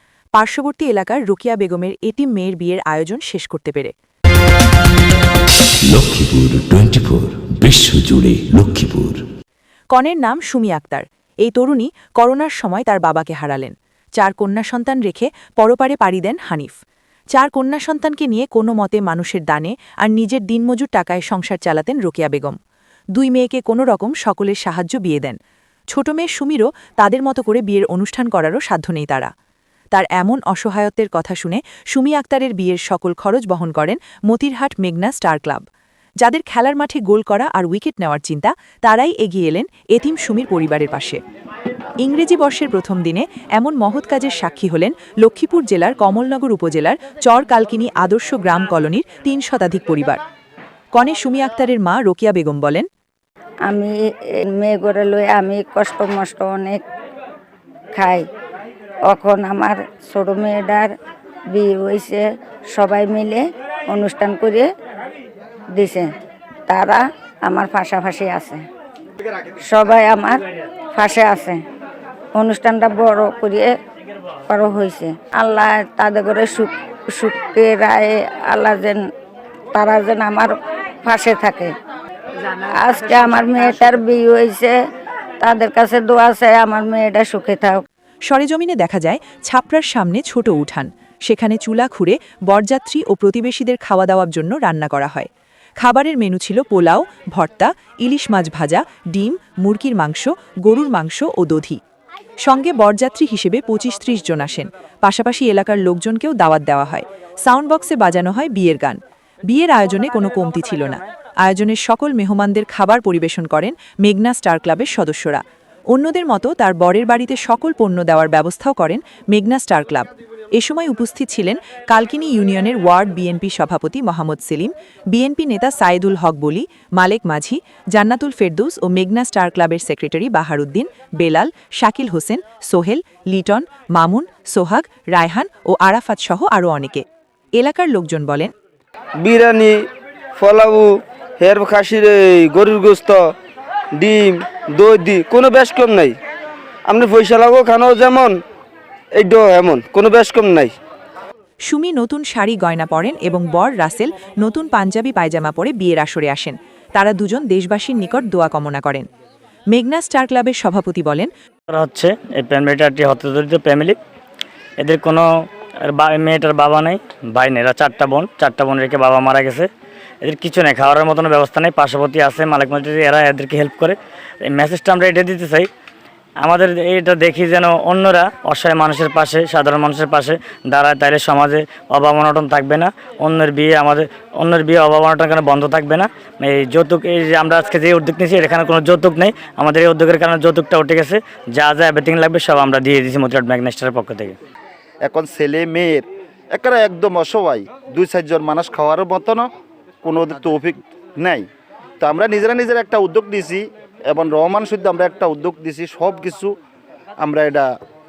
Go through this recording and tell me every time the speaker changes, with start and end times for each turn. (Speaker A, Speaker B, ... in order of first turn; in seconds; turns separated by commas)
Speaker A: 0.3-3.9, Speaker B: 5.8-9.2, Speaker A: 9.9-16.8, Speaker A: 17.3-22.6, Speaker A: 23.1-25.4, Speaker A: 25.9-29.3, Speaker A: 29.9-35.6, Speaker A: 36.2-41.2, Speaker A: 42.0-50.2, Speaker A: 50.9-52.9, Speaker C: 53.7-54.0, Speaker C: 54.5-56.8, Speaker C: 57.9-58.2, Speaker C: 59.1-60.9, Speaker C: 61.5-64.7, Speaker C: 65.7-66.1, Speaker C: 66.7-68.6, Speaker C: 69.6-70.4, Speaker C: 70.9-71.6, Speaker C: 72.3-73.7, Speaker C: 74.5-79.0, Speaker C: 79.7-81.7, Speaker C: 82.7-84.8, Speaker C: 85.4-87.8, Speaker A: 88.2-95.3, Speaker A: 95.8-101.8, Speaker A: 102.4-137.0, Speaker A: 137.6-138.5, Speaker D: 139.2-143.3, Speaker D: 143.9-146.2, Speaker D: 146.9-148.4, Speaker D: 149.1-150.7, Speaker A: 151.7-159.1, Speaker A: 159.7-161.3, Speaker E: 161.7-163.9, Speaker E: 164.8-165.2, Speaker E: 165.9-169.7, Speaker E: 170.2-174.0, Speaker E: 174.5-175.7, Speaker E: 176.4-194.3, Speaker F: 195.0-199.5, Speaker F: 200.0-201.4, Speaker F: 202.0-206.5, Speaker F: 207.2-207.7